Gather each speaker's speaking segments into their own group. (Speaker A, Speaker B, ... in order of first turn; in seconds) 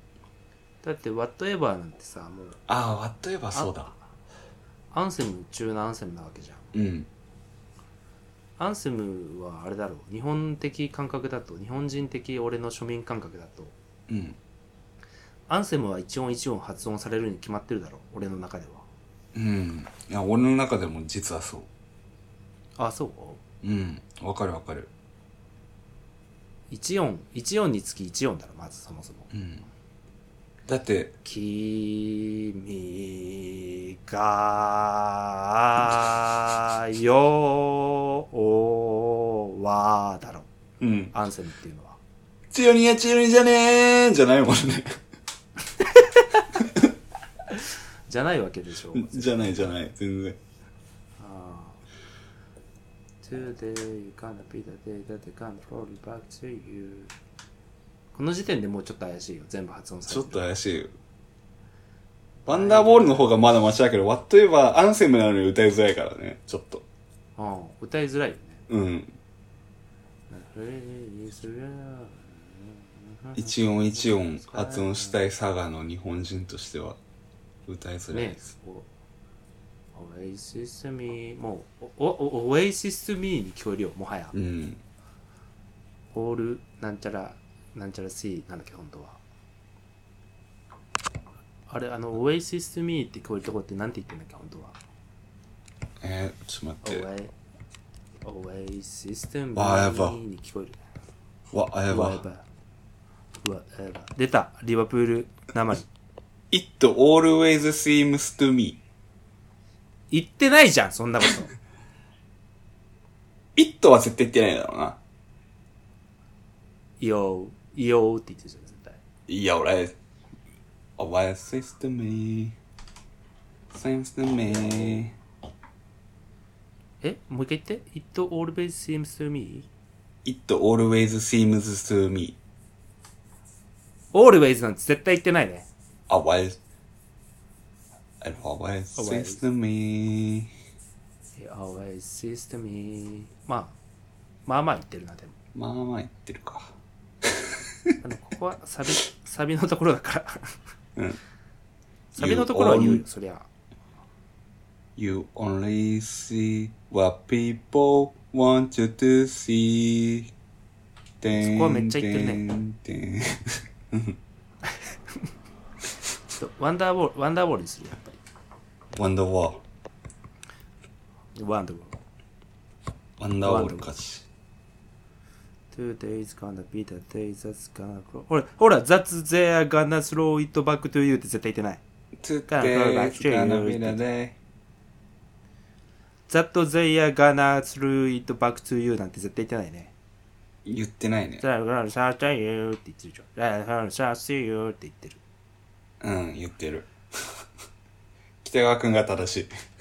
Speaker A: 0.8-2.6, 3.5-4.0, 4.9-6.7, 8.6-13.7, 15.5-18.9, 22.8-23.4, 26.7-29.3, 31.2-40.5, 41.1-42.0, 45.8-46.5, 47.5-49.7, 51.2-51.8, 53.2-57.1, 58.1-60.5, 62.5-63.3, 67.4-68.6, 70.3-75.2, 78.1-78.9, 80.0-84.3, 86.1-89.2, 91.7-94.8, 96.8-97.3, 98.2-100.8, 101.9-102.5, 103.4-105.9, 110.1-111.5, 117.0-119.0, 124.7-125.0, 127.0-129.7, 134.1-135.7, 139.0-139.4, 141.4-143.8, 144.5-145.4, 148.0-150.6, 152.2-153.5, 161.3-162.4, 166.4-168.2, 171.4-172.0, 173.4-173.9, 175.7-181.8, 182.5-184.0, 186.3-189.9, 191.4-195.2
Speaker B: 2.7-3.9, 6.7-7.1, 14.1-14.4, 19.4-21.7, 23.6-24.9, 29.3-29.6, 30.7-31.2, 40.8-41.1, 42.5-45.0, 48.9-50.4, 60.1-60.9, 62.5-66.8, 68.7-69.2, 73.3-77.0, 77.7-78.5, 84.3-84.8, 96.0-97.1, 99.5-100.2, 101.5-102.2, 106.5-108.8, 113.6-115.0, 119.3-120.0, 121.0-122.6, 123.7-125.2, 130.2-132.4, 136.1-136.6, 138.2-140.5, 145.6-146.7, 147.2-147.9, 152.2-153.0, 155.0-160.3, 161.2-164.2, 168.9-169.6, 173.2-174.3, 182.2-184.4, 190.7-191.4, 196.0-197.4, 198.4-199.5